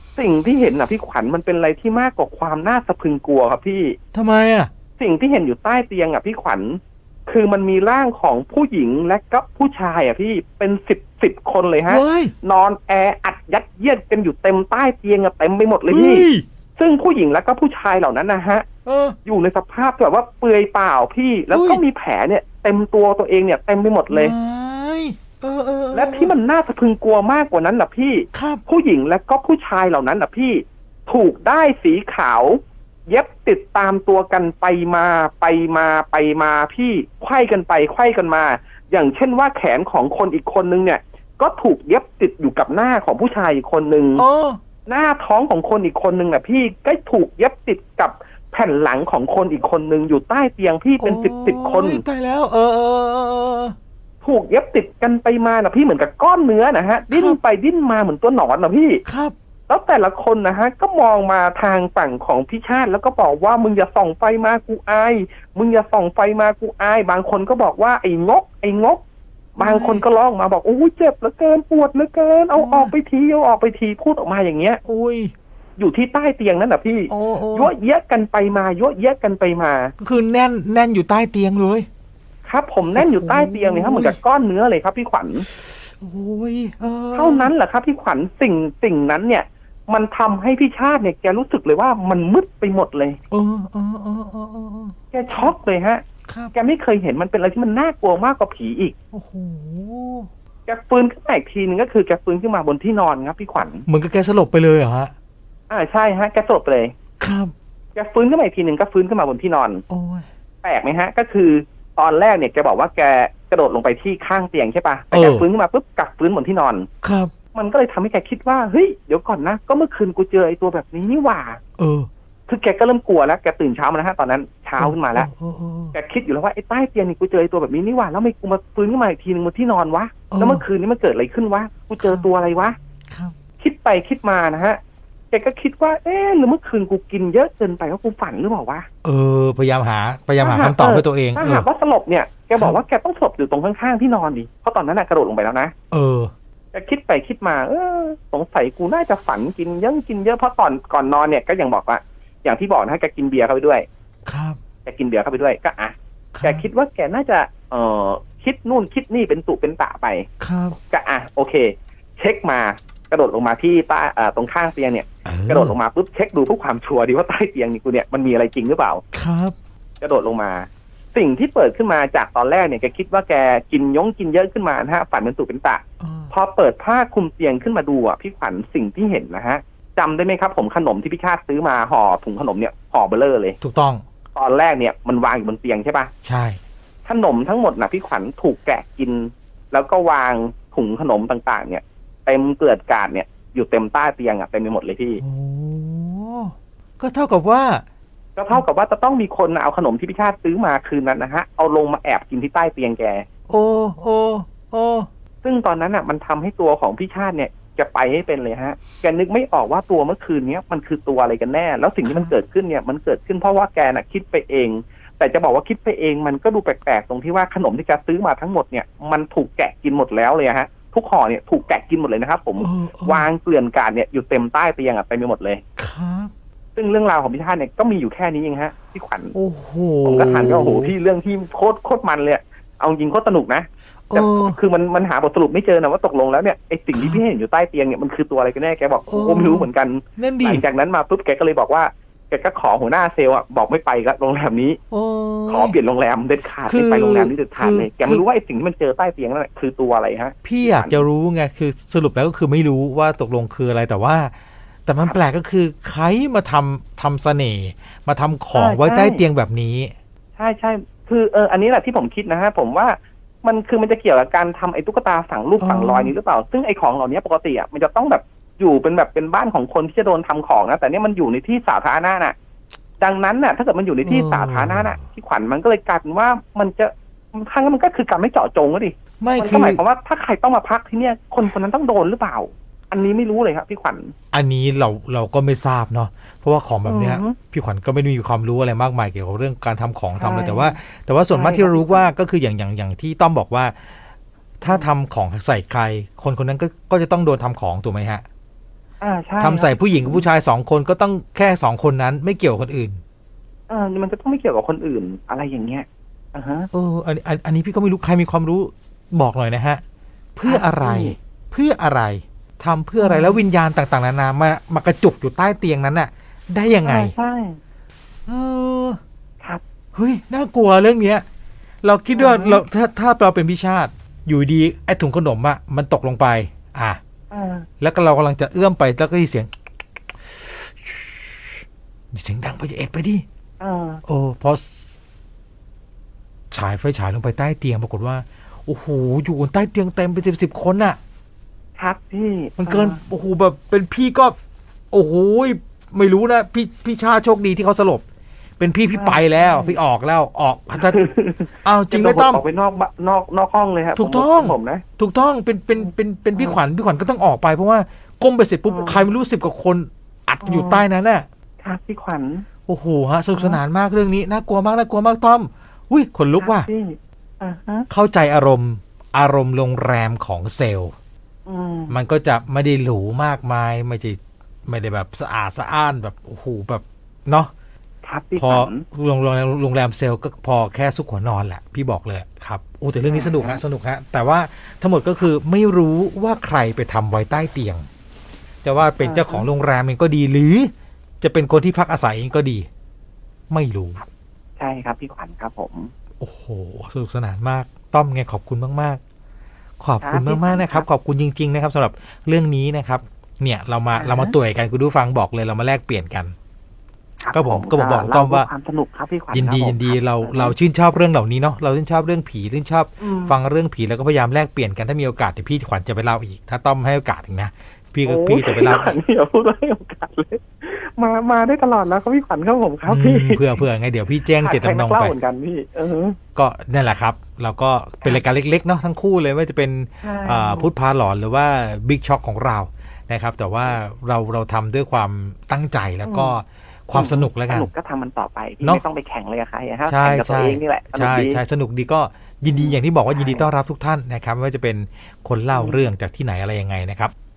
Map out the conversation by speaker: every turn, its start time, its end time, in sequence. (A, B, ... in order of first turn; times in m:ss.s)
0:00.2-0:04.0 A
0:04.1-0:04.7 B
0:05.0-0:18.6 A
0:11.9-0:12.3 B
0:15.9-0:16.4 B
0:18.8-0:19.2 B
0:19.2-0:24.3 A
0:21.5-0:21.8 B
0:24.1-0:26.3 B
0:25.9-0:44.2 A
0:28.3-0:28.6 B
0:44.2-0:44.6 B
0:44.8-0:52.0 A
0:51.0-0:53.8 B
0:54.2-0:59.0 A
0:57.1-0:57.4 B
0:59.0-0:59.3 B
0:59.7-1:09.0 A
1:09.6-1:14.8 A
1:09.6-1:10.0 B
1:12.5-1:12.9 B
1:14.8-1:15.3 B
1:15.8-1:19.9 A
1:17.1-1:17.7 B
1:20.0-1:21.9 B
1:22.4-1:25.4 A
1:23.0-1:24.2 B
1:25.5-1:27.5 B
1:27.1-1:33.2 A
1:33.3-1:35.5 B
1:35.1-1:36.0 A
1:36.3-1:36.5 B
1:36.5-1:38.9 A
1:39.1-1:40.3 B
1:40.7-1:43.8 A
1:43.8-1:45.1 B
1:45.7-1:46.9 A
1:47.2-1:47.5 B
1:47.9-1:49.8 A
1:49.9-1:50.3 B
1:50.6-1:56.9 A
1:55.1-1:55.4 B
1:57.0-1:57.3 B
1:57.5-2:01.6 A
2:01.8-2:02.1 B
2:02.5-2:05.3 A
2:04.8-2:05.9 B
2:05.9-2:12.8 A
2:10.3-2:10.6 B
2:12.0-2:12.3 B
2:13.1-2:13.3 B
2:13.6-2:14.8 A
2:15.3-2:18.9 A
2:19.0-2:21.7 B
2:20.4-2:25.7 A
2:25.9-2:26.3 B
2:26.7-2:33.8 A
2:34.3-2:34.6 B
2:34.8-2:40.3 A
2:36.3-2:36.6 B
2:40.4-2:40.8 B
2:40.9-2:49.0 A
2:45.2-2:45.8 B
2:49.1-2:49.5 B
2:50.0-3:03.6 A
2:56.0-2:56.3 B
3:03.6-3:04.0 B
3:04.3-3:06.1 A
3:06.2-3:06.6 B
3:07.0-3:15.2 A
3:15.2-3:17.8 B
3:18.4-3:23.2 A
3:23.5-3:25.1 B
3:25.4-3:45.6 A
3:32.0-3:32.3 B
3:42.6-3:43.3 B
3:45.8-3:46.3 B
3:46.8-3:49.3 A
3:49.3-3:50.9 B
3:50.0-4:04.8 A
3:54.1-3:54.6 B
3:56.9-3:57.2 B
3:59.1-4:00.6 B
4:04.9-4:05.8 B
4:05.5-4:11.0 A
4:06.6-4:08.2 B
4:10.4-4:14.3 B
4:14.8-4:19.9 B
4:18.5-4:19.2 A
4:20.4-4:32.3 A
4:25.6-4:26.1 B
4:33.0-4:44.1 A
4:34.0-4:35.0 B
4:39.2-4:39.8 B
4:44.3-4:53.7 B
4:46.8-4:47.4 A
4:50.2-4:50.7 A
4:51.3-4:52.1 A
4:54.6-4:58.2 B
4:59.0-5:00.2 A
4:59.4-5:03.0 B
5:03.7-5:06.7 A
5:06.7-5:09.8 B
5:10.3-5:17.1 B
5:10.4-5:11.2 A
5:13.0-5:13.4 A
5:16.8-5:17.6 A
5:18.3-5:19.0 B
5:19.9-5:21.2 B
5:21.8-5:27.0 B
5:22.1-5:22.6 A
5:27.3-5:27.7 A
5:27.8-5:29.5 B
5:30.3-5:33.2 B
5:33.6-5:34.0 A
5:34.0-5:34.8 B
5:36.5-5:41.0 B
5:41.8-5:43.0 A
5:42.6-5:44.4 B
5:44.9-5:48.0 B
5:48.6-5:51.0 B
5:48.9-5:49.8 A
5:50.8-5:54.8 A
5:51.6-5:52.4 B
5:54.0-6:01.2 B
5:55.8-5:56.6 A
5:58.7-5:59.1 A
6:00.4-6:00.8 A
6:01.6-6:02.4 A
6:02.7-6:06.7 B
6:03.4-6:03.6 A
6:06.4-6:07.9 A
6:07.9-6:10.9 B
6:11.4-6:11.9 A
6:11.9-6:17.5 B
6:18.0-6:18.8 A
6:18.4-6:27.8 B
6:23.1-6:23.6 A
6:28.6-6:32.7 B
6:29.0-6:29.4 A
6:33.5-6:34.0 B
6:34.6-6:35.9 A
6:36.2-6:39.0 B
6:39.8-6:46.3 B
6:40.0-6:40.8 A
6:44.0-6:44.3 A
6:47.2-6:50.5 A
6:47.3-6:48.5 B
6:49.3-6:59.0 B
6:53.0-6:53.3 A
6:58.0-7:03.5 A
7:02.9-7:05.1 B
7:04.4-7:06.2 A
7:06.3-7:17.7 B
7:10.0-7:10.7 A
7:16.0-7:16.4 A
7:16.9-7:21.4 A
7:19.9-7:27.1 B
7:22.5-7:23.5 A
7:25.5-7:25.9 A